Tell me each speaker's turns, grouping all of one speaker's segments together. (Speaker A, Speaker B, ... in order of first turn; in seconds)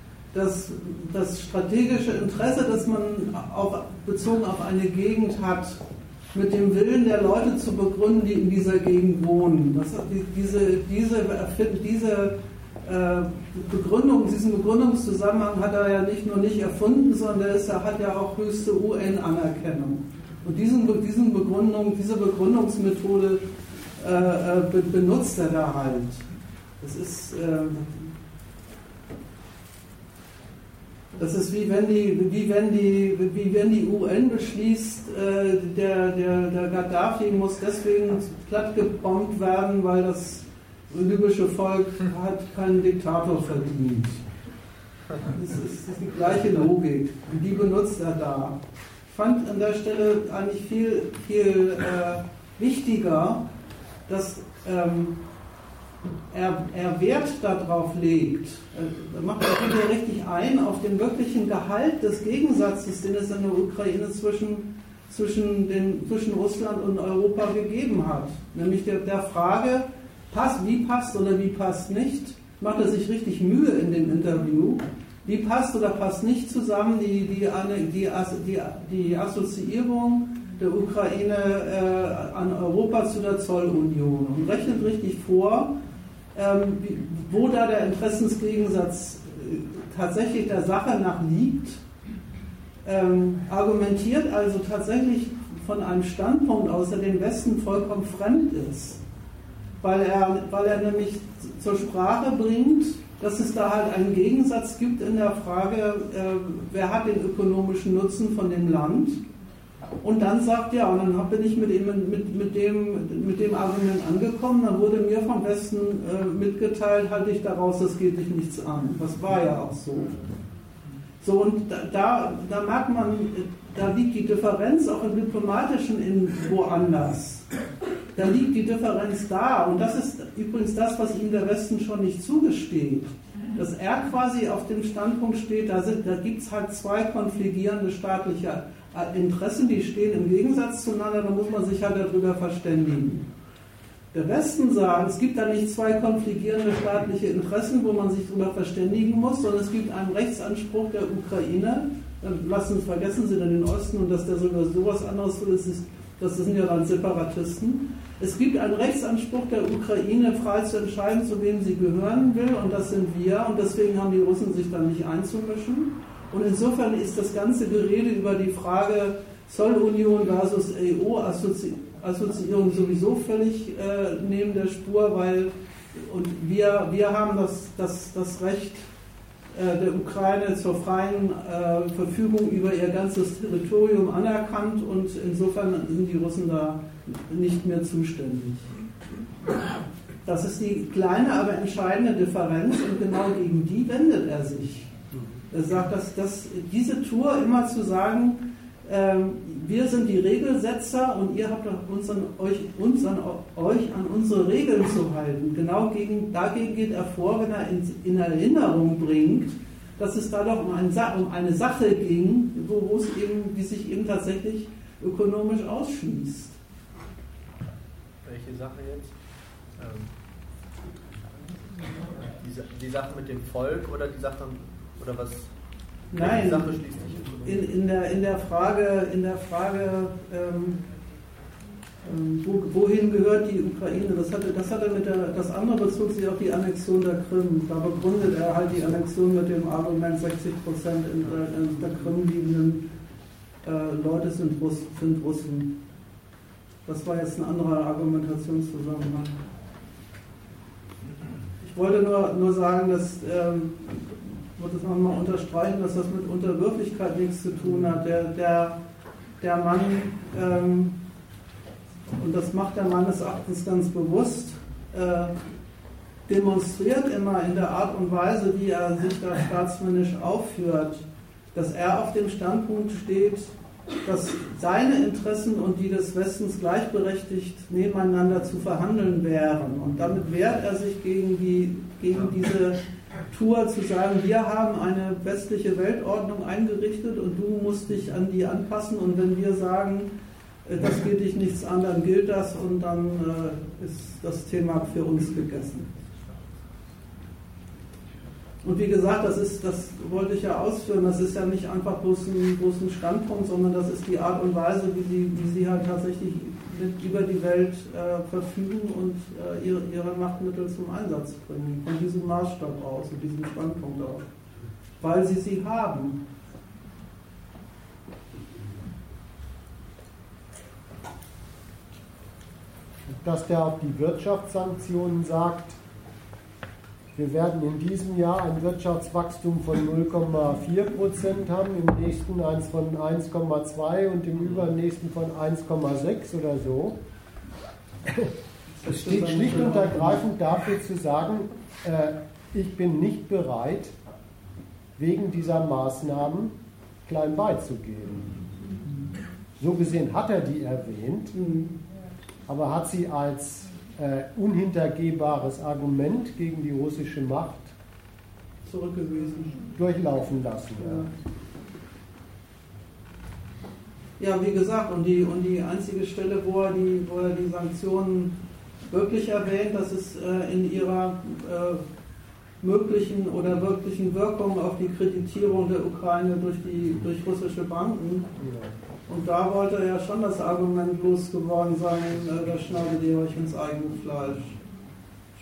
Speaker A: 0.3-5.8, 6.3-23.4, 24.0-26.2, 26.8-28.1, 31.1-44.2, 45.2-53.4, 54.1-55.2, 56.3-85.7, 86.3-91.8, 92.8-99.0, 99.8-109.2, 110.0-120.1, 121.2-127.5, 128.1-143.3, 144.1-178.8, 179.5-188.7, 190.2-194.9, 195.5-216.6, 226.1-226.8, 227.4-230.8, 232.0-242.8, 243.6-245.7, 246.8-249.4, 251.6-258.8, 259.4-261.0, 262.2-265.3, 266.3-290.1, 290.6-295.9, 298.6-314.2, 315.0-316.2, 338.8-340.2, 351.3-351.8, 358.6-359.7, 360.8-361.1, 364.2-368.3, 368.9-371.8, 372.6-378.3, 379.1-384.6
Speaker B: 218.2-219.1, 219.8-220.1, 221.8-225.5, 226.1-227.6
Speaker C: 323.1-325.8, 327.1-337.0, 338.8-343.9, 345.0-348.4, 349.6-351.3, 352.5-357.7, 359.7-361.1, 378.4-378.7